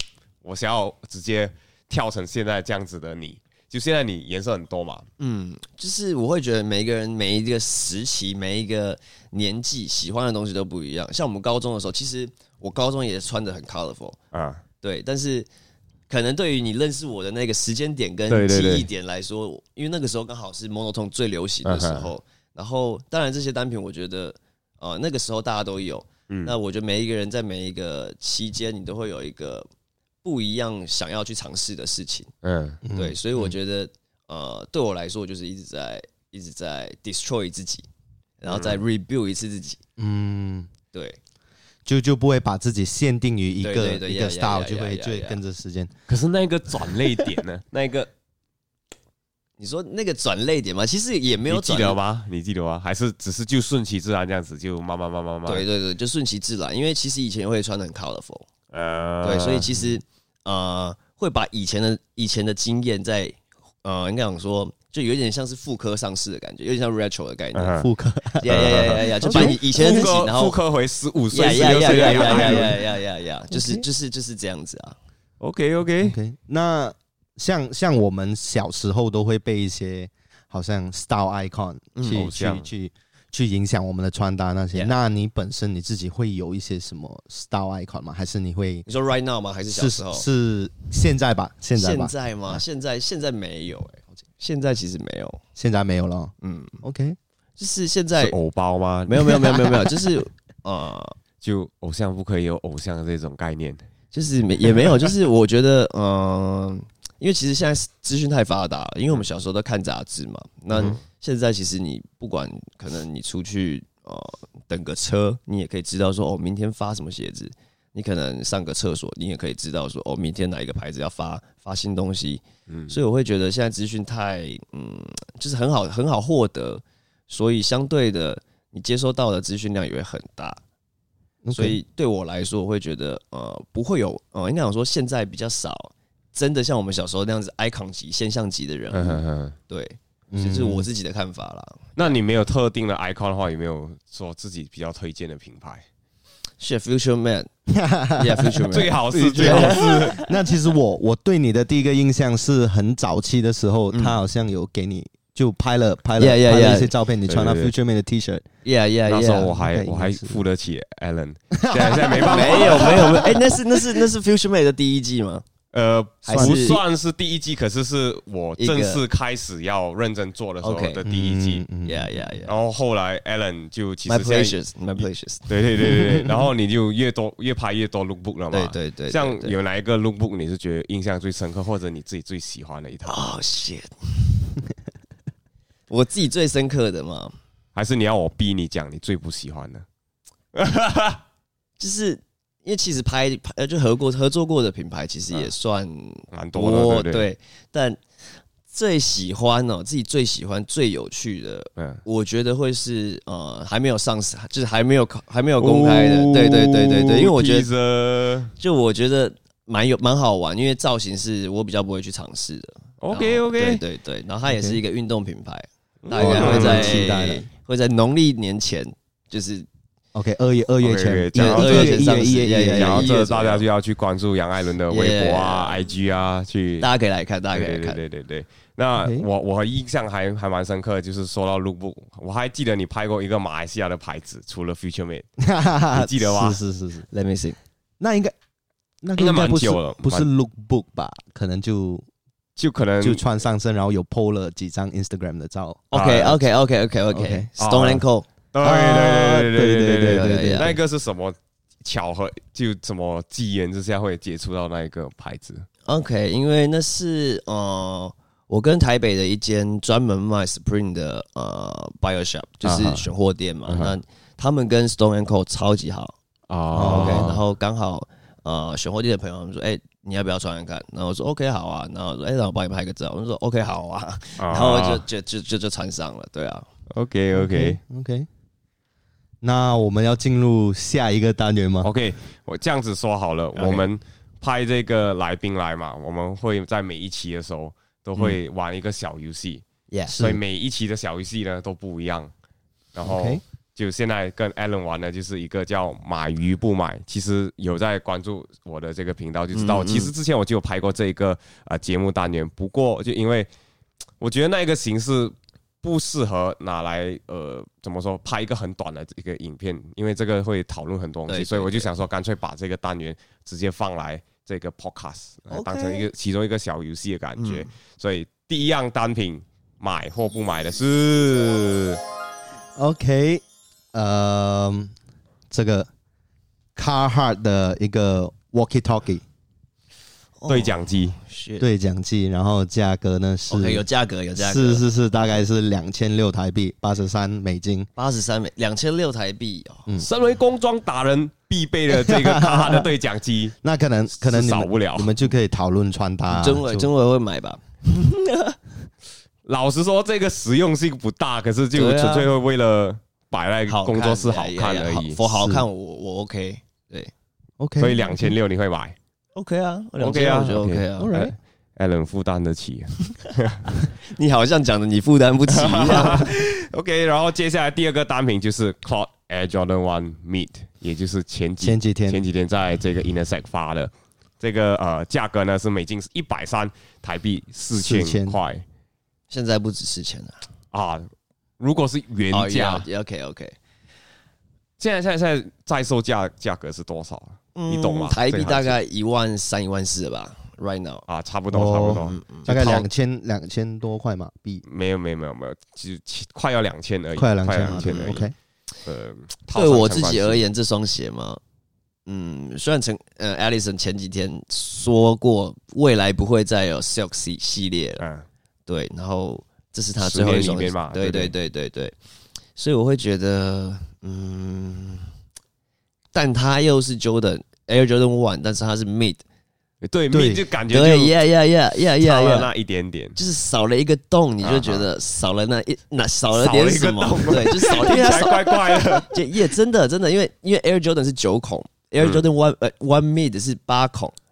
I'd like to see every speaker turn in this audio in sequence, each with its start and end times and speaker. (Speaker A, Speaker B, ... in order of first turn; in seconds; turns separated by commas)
Speaker A: 0.4-5.1, Speaker B: 5.2-14.2, Speaker A: 14.3-14.6, Speaker B: 14.8-15.5, Speaker B: 16.1-29.7, Speaker A: 18.3-18.9, Speaker A: 21.6-22.1, Speaker A: 26.3-26.5, Speaker B: 30.2-32.3, Speaker A: 32.4-32.8, Speaker C: 32.8-33.5, Speaker B: 32.9-37.9, Speaker B: 38.4-39.8, Speaker A: 38.5-38.8, Speaker C: 40.0-40.7, Speaker B: 40.9-41.2, Speaker C: 41.8-45.9, Speaker B: 43.6-45.4, Speaker A: 46.1-47.7, Speaker B: 47.7-48.1, Speaker B: 49.6-52.0, Speaker A: 51.5-55.6, Speaker B: 55.5-58.5, Speaker A: 58.7-59.7, Speaker B: 59.2-67.8, Speaker A: 67.5-67.9, Speaker C: 67.8-70.0, Speaker B: 68.4-70.5, Speaker A: 68.5-72.8, Speaker B: 71.3-75.0, Speaker C: 71.6-72.8, Speaker C: 73.5-73.8, Speaker A: 75.4-76.2, Speaker C: 76.0-88.8, Speaker B: 81.9-82.3, Speaker A: 82.1-82.7, Speaker B: 88.9-90.2, Speaker C: 89.7-92.6, Speaker B: 91.7-95.4, Speaker C: 95.5-97.2, Speaker B: 96.4-96.8, Speaker B: 97.6-98.3, Speaker A: 98.2-99.8, Speaker B: 99.1-101.2, Speaker A: 101.4-103.8, Speaker B: 104.1-130.6, Speaker A: 110.7-111.0, Speaker A: 122.7-123.0, Speaker C: 131.4-131.8, Speaker B: 131.5-141.9, Speaker A: 138.9-139.6, Speaker C: 140.3-140.9, Speaker A: 141.9-145.8, Speaker B: 146.6-147.5, Speaker C: 147.7-148.7, Speaker B: 148.2-150.3, Speaker A: 148.7-150.2, Speaker C: 149.3-158.4, Speaker B: 153.9-154.2, Speaker B: 156.2-156.9, Speaker A: 157.3-157.7, Speaker B: 158.6-159.5, Speaker A: 159.1-163.3, Speaker C: 159.4-160.4, Speaker C: 161.5-163.2, Speaker B: 162.2-165.4, Speaker A: 165.7-171.6, Speaker B: 166.2-166.8, Speaker C: 166.3-166.8, Speaker B: 168.6-169.0, Speaker B: 170.6-171.0, Speaker C: 171.0-172.4, Speaker B: 171.8-172.5, Speaker A: 172.4-183.2, Speaker B: 174.1-175.5, Speaker C: 175.9-176.3, Speaker B: 178.5-179.6, Speaker B: 183.1-184.4, Speaker B: 185.9-187.3, Speaker A: 187.7-189.8, Speaker A: 190.5-191.2, Speaker B: 191.8-198.0, Speaker A: 196.3-197.3, Speaker B: 198.7-207.7, Speaker A: 201.8-202.0, Speaker A: 205.6-208.5, Speaker B: 208.6-219.7, Speaker A: 213.0-213.8, Speaker C: 214.5-214.8, Speaker A: 216.0-217.2, Speaker C: 216.1-217.5, Speaker C: 220.1-223.1, Speaker A: 220.8-222.1, Speaker B: 221.3-223.7, Speaker A: 222.7-226.9, Speaker B: 224.9-225.8, Speaker B: 226.8-228.0, Speaker A: 227.5-235.3, Speaker C: 229.0-229.2, Speaker C: 235.4-237.1, Speaker A: 235.9-236.6, Speaker B: 237.1-237.6, Speaker C: 238.0-238.3, Speaker C: 239.0-242.1, Speaker A: 239.2-240.3, Speaker A: 242.6-243.2, Speaker C: 243.0-245.8, Speaker B: 245.9-248.3, Speaker A: 245.9-246.5, Speaker C: 247.1-247.5, Speaker A: 247.6-255.7, Speaker C: 248.6-250.8, Speaker B: 250.0-250.8, Speaker B: 255.8-266.1, Speaker A: 262.6-263.0, Speaker A: 263.7-263.9, Speaker A: 266.5-267.4, Speaker C: 266.7-267.4, Speaker B: 266.8-276.7, Speaker A: 274.4-275.1, Speaker A: 276.9-277.8, Speaker C: 277.3-278.3, Speaker C: 279.4-281.9, Speaker A: 281.8-289.6, Speaker B: 283.5-283.9, Speaker B: 289.9-290.2, Speaker C: 290.1-290.4, Speaker A: 290.1-292.3, Speaker A: 292.9-303.5, Speaker C: 293.1-293.4, Speaker B: 299.5-300.1, Speaker A: 304.2-322.0, Speaker B: 311.3-311.9, Speaker B: 315.5-316.1, Speaker B: 317.4-317.7, Speaker C: 322.8-324.9, Speaker C: 325.5-325.9, Speaker C: 326.7-329.2, Speaker B: 330.4-331.6, Speaker A: 330.5-331.2, Speaker C: 331.6-333.8, Speaker B: 333.5-334.8, Speaker C: 334.4-337.9, Speaker B: 337.9-339.9, Speaker A: 340.0-343.6, Speaker C: 341.9-342.9, Speaker C: 343.6-346.9, Speaker A: 344.2-345.1, Speaker B: 346.3-348.6, Speaker A: 349.4-355.2, Speaker B: 351.7-352.3, Speaker B: 353.7-357.1, Speaker C: 355.3-355.6, Speaker C: 357.6-358.3, Speaker A: 357.8-358.9, Speaker B: 359.4-361.2, Speaker A: 360.0-363.7, Speaker C: 361.0-361.3, Speaker B: 364.0-366.3, Speaker A: 365.5-378.6, Speaker C: 371.6-372.2, Speaker C: 377.8-378.4, Speaker B: 379.3-380.4, Speaker A: 380.7-381.1, Speaker A: 381.6-382.9, Speaker B: 382.3-383.6, Speaker A: 384.8-388.8, Speaker B: 387.5-391.0, Speaker A: 391.1-392.9, Speaker C: 391.5-394.6, Speaker B: 391.9-392.5, Speaker A: 394.6-398.3, Speaker C: 397.2-398.3, Speaker B: 397.6-398.2, Speaker A: 398.8-400.4, Speaker B: 399.5-401.4, Speaker B: 402.1-408.0, Speaker A: 408.0-408.2, Speaker B: 408.7-411.9, Speaker A: 410.0-411.3, Speaker B: 412.6-415.1, Speaker B: 416.1-419.2, Speaker A: 419.8-421.2, Speaker C: 420.1-420.4, Speaker B: 420.7-422.5, Speaker A: 422.0-423.2, Speaker B: 423.1-434.1, Speaker A: 424.4-424.9, Speaker A: 426.3-429.3, Speaker A: 432.0-432.2